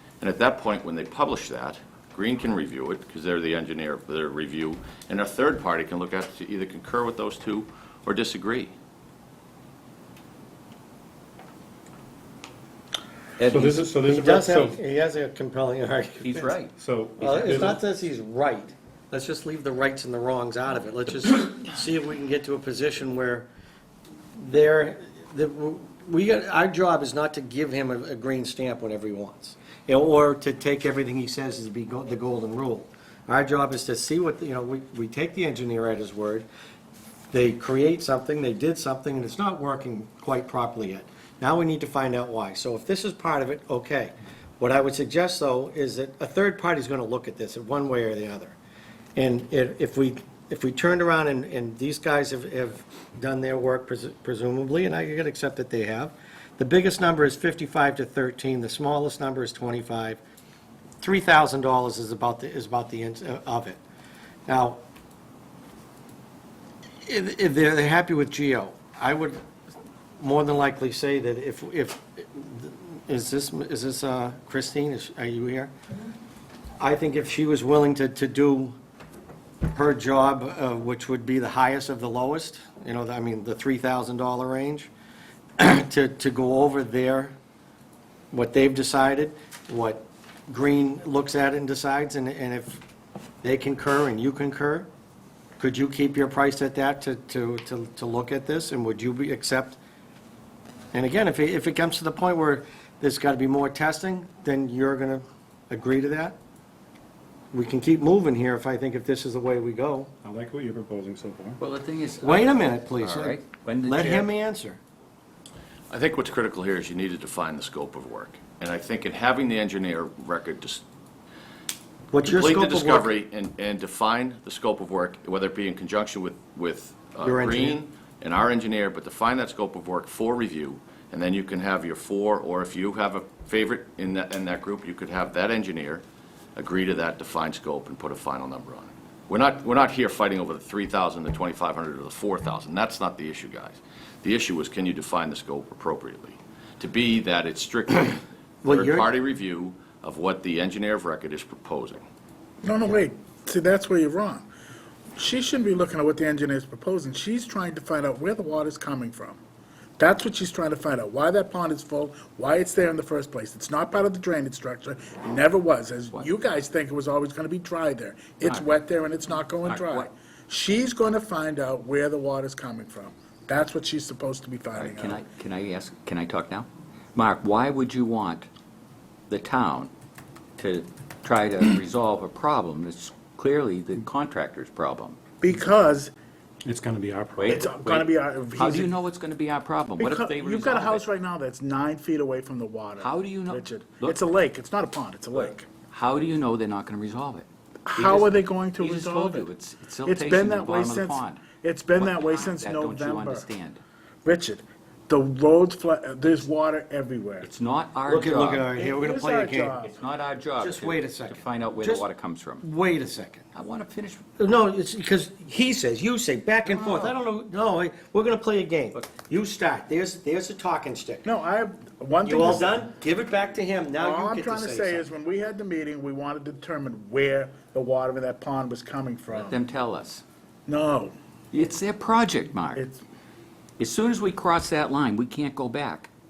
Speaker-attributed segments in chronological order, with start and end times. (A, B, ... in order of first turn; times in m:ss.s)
0:00.2-0:08.7 A
0:13.4-0:13.8 B
0:13.4-0:14.8 C
0:14.0-0:16.5 D
0:16.2-0:17.6 B
0:16.8-0:17.8 C
0:17.2-0:23.5 D
0:24.4-0:36.5 D
0:37.3-0:48.6 D
0:49.1-1:00.2 D
1:01.0-1:03.8 D
1:04.5-1:04.8 D
1:07.0-1:09.4 D
1:10.2-1:15.7 D
1:16.8-1:18.7 D
1:19.7-1:24.9 D
1:25.6-1:27.3 D
1:28.3-1:32.8 D
1:33.4-1:34.9 D
1:35.6-1:39.8 D
1:40.9-1:46.4 D
1:47.5-1:50.1 D
1:50.2-1:51.6 C
1:51.6-1:54.3 B
1:52.2-1:54.8 D
1:55.9-2:00.8 A
2:02.1-2:03.1 D
2:02.2-2:16.0 A
2:07.2-2:07.8 D
2:16.6-2:32.1 A
2:28.6-2:29.1 D
2:32.6-2:34.5 E
2:35.2-2:39.4 E
2:40.0-2:55.2 E
2:48.4-2:48.8 B
2:49.6-2:50.1 B
2:54.7-2:58.5 B
2:59.3-2:59.9 B
3:00.6-3:05.2 B
3:05.4-3:06.1 E
3:06.6-3:07.6 C
3:07.4-3:11.0 B
3:07.4-3:08.9 E
3:10.0-3:15.7 E
3:13.0-3:14.2 B
3:15.4-3:21.4 B
3:17.9-3:19.5 E
3:20.0-3:23.5 E
3:21.9-3:23.8 B
3:24.2-3:27.5 E
3:27.4-3:28.7 B
3:28.1-3:29.8 D
3:28.8-3:30.0 E
3:29.8-3:32.6 B
3:30.6-3:32.1 D
3:32.6-3:33.4 D
3:33.5-3:34.2 B
3:34.4-3:41.3 D
3:36.6-3:37.2 B
3:41.2-3:42.8 E
3:42.2-3:45.0 D
3:44.0-3:49.6 E
3:49.3-3:50.2 B
3:50.7-3:51.1 E
3:51.5-3:52.8 B
3:52.7-3:53.0 E
3:53.8-3:56.1 B